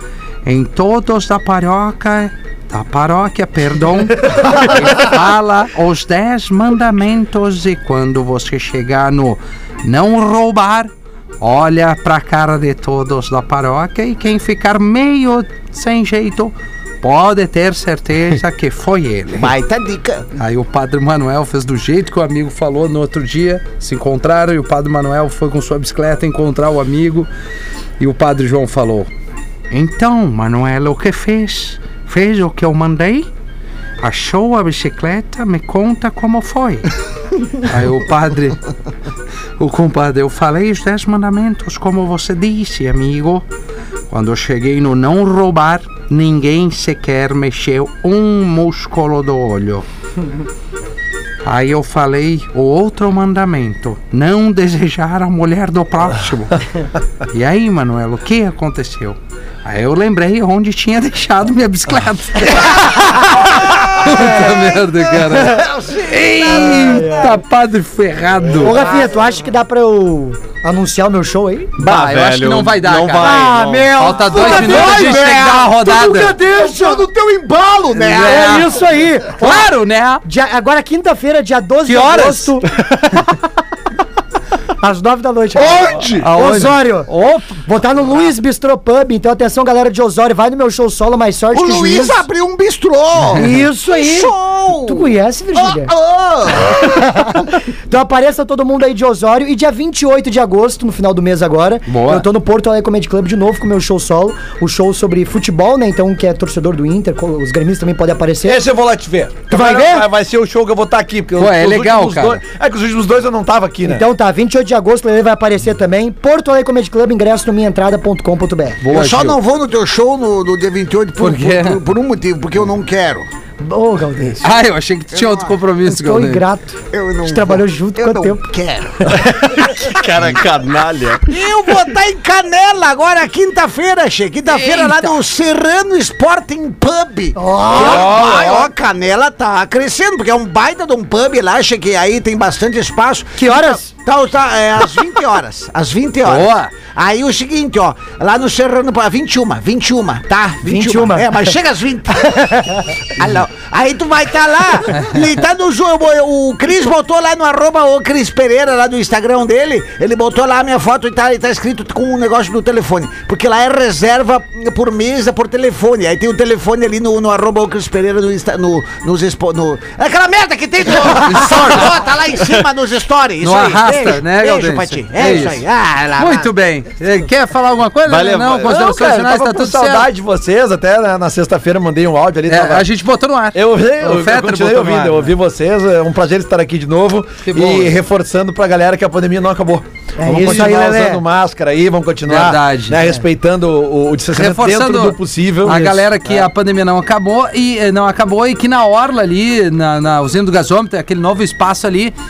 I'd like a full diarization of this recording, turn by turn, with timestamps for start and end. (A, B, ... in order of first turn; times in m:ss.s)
0:00.4-0:19.5 A
0:19.3-0:20.3 B
0:20.4-0:27.3 A
0:28.0-0:29.1 A
0:29.7-0:33.3 A
0:34.0-0:36.9 A
0:37.5-0:38.6 A
0:39.6-0:43.4 A
0:44.1-0:49.8 A
0:51.4-0:56.6 A
0:57.3-1:08.8 A
1:05.3-1:07.3 B
1:06.5-1:07.4 C
1:08.6-1:09.3 B
1:08.6-1:11.7 C
1:11.8-1:16.4 A
1:11.8-1:14.3 D
1:13.2-1:17.1 C
1:14.3-1:15.8 B
1:16.4-1:18.6 B
1:18.0-1:18.7 A
1:18.1-1:22.7 C
1:19.3-1:20.2 A
1:21.8-1:22.5 A
1:24.8-1:32.2 C
1:25.5-1:26.3 B
1:26.1-1:27.6 A
1:31.5-1:37.0 B
1:33.3-1:34.3 C
1:34.9-1:35.9 C
1:36.8-1:48.6 C
1:41.9-1:42.3 A
1:48.4-1:54.0 E
1:49.5-1:50.1 C
1:51.4-1:52.4 A
1:53.8-1:58.8 C
1:58.8-1:59.4 A
1:58.9-2:03.3 B
2:01.2-2:01.8 A
2:03.6-2:04.4 C
2:04.4-2:06.4 A
2:05.1-2:05.6 B
2:05.8-2:08.5 C
2:06.9-2:10.0 B
2:09.1-2:11.2 D
2:11.3-2:56.5 B
2:14.5-2:15.2 A
2:17.3-2:18.2 C
2:17.7-2:18.7 E
2:23.4-2:23.9 C
2:26.2-2:26.7 A
2:30.6-2:31.3 C
2:32.3-2:32.8 C
2:51.0-2:51.9 A
2:53.4-2:55.6 A
2:56.2-3:00.1 A
2:58.1-2:58.8 D
2:58.6-3:02.9 E
3:02.5-3:05.3 A
3:03.5-3:16.1 E
3:07.4-3:08.0 A
3:10.2-3:11.2 C
3:12.3-3:13.0 A
3:14.3-3:22.1 A